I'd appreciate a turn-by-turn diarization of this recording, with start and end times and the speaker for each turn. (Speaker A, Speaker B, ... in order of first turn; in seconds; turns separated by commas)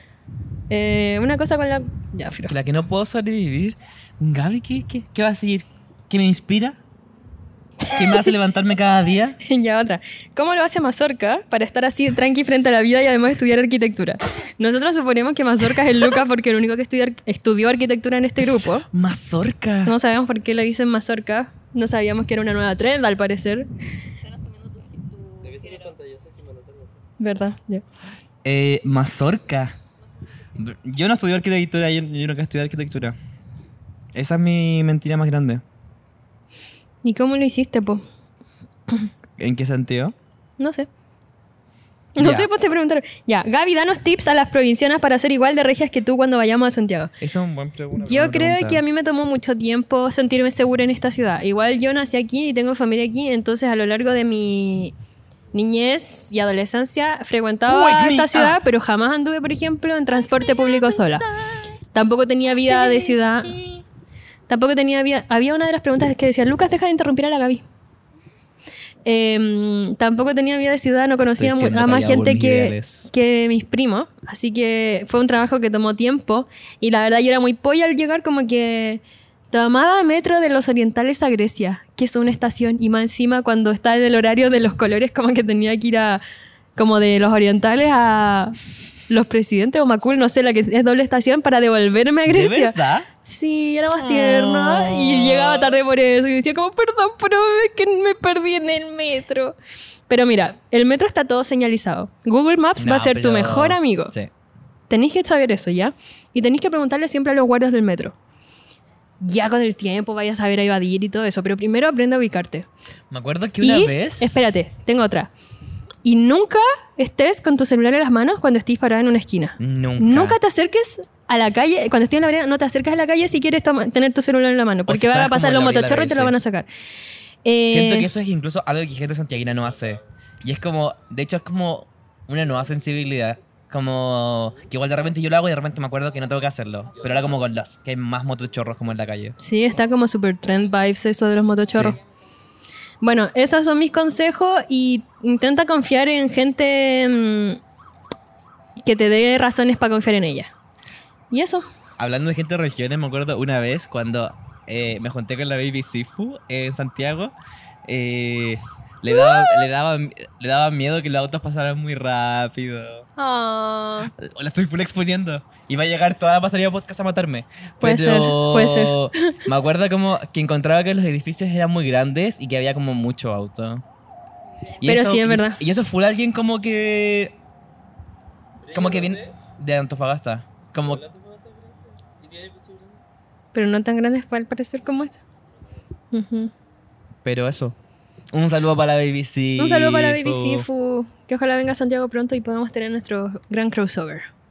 Speaker A: 0.7-2.5, Speaker B: 2.5-6.8, Speaker B: 7.9-9.4, Speaker A: 7.9-8.2, Speaker A: 9.4-18.9, Speaker B: 18.9-19.9, Speaker A: 19.8-23.7, Speaker C: 24.2-25.9, Speaker D: 25.4-27.0, Speaker A: 27.2-27.8, Speaker B: 28.4-29.7, Speaker C: 30.1-30.6, Speaker B: 30.6-33.1, Speaker B: 34.1-35.6, Speaker A: 37.0-38.0, Speaker B: 39.4-40.1, Speaker A: 40.6-40.9, Speaker A: 42.1-47.1, Speaker B: 42.2-42.5, Speaker B: 47.2-48.8, Speaker A: 48.0-54.9, Speaker A: 55.5-61.3, Speaker B: 57.7-58.6, Speaker B: 60.8-61.5, Speaker A: 61.9-63.6, Speaker B: 62.7-63.7, Speaker A: 64.5-67.6, Speaker A: 69.0-86.2, Speaker B: 71.4-73.0, Speaker A: 86.8-88.5, Speaker A: 89.1-99.5, Speaker B: 92.2-93.1, Speaker B: 94.0-95.8, Speaker A: 100.1-104.1, Speaker B: 102.8-104.3, Speaker A: 104.9-108.1, Speaker A: 109.2-112.7, Speaker B: 113.1-114.4, Speaker A: 113.6-115.3, Speaker A: 116.0-126.7, Speaker B: 119.6-120.4, Speaker B: 124.9-126.3, Speaker A: 127.4-128.1, Speaker B: 127.6-139.3, Speaker D: 129.4-130.1, Speaker D: 136.9-137.5, Speaker D: 138.7-139.1, Speaker A: 139.4-142.0, Speaker B: 141.7-142.0, Speaker C: 141.7-142.3, Speaker A: 143.0-147.6, Speaker A: 148.8-150.5, Speaker A: 151.3-151.7, Speaker B: 152.0-157.3, Speaker B: 157.8-163.1, Speaker A: 159.1-159.6, Speaker A: 163.2-164.1, Speaker B: 164.1-173.8, Speaker A: 167.8-169.3, Speaker B: 174.8-177.4, Speaker A: 174.8-175.6, Speaker D: 178.6-179.4, Speaker B: 178.7-181.0, Speaker D: 180.8-183.0, Speaker A: 183.5-185.2, Speaker D: 185.5-185.8, Speaker A: 186.1-186.5, Speaker B: 187.2-187.8, Speaker B: 188.3-190.7, Speaker A: 189.6-194.3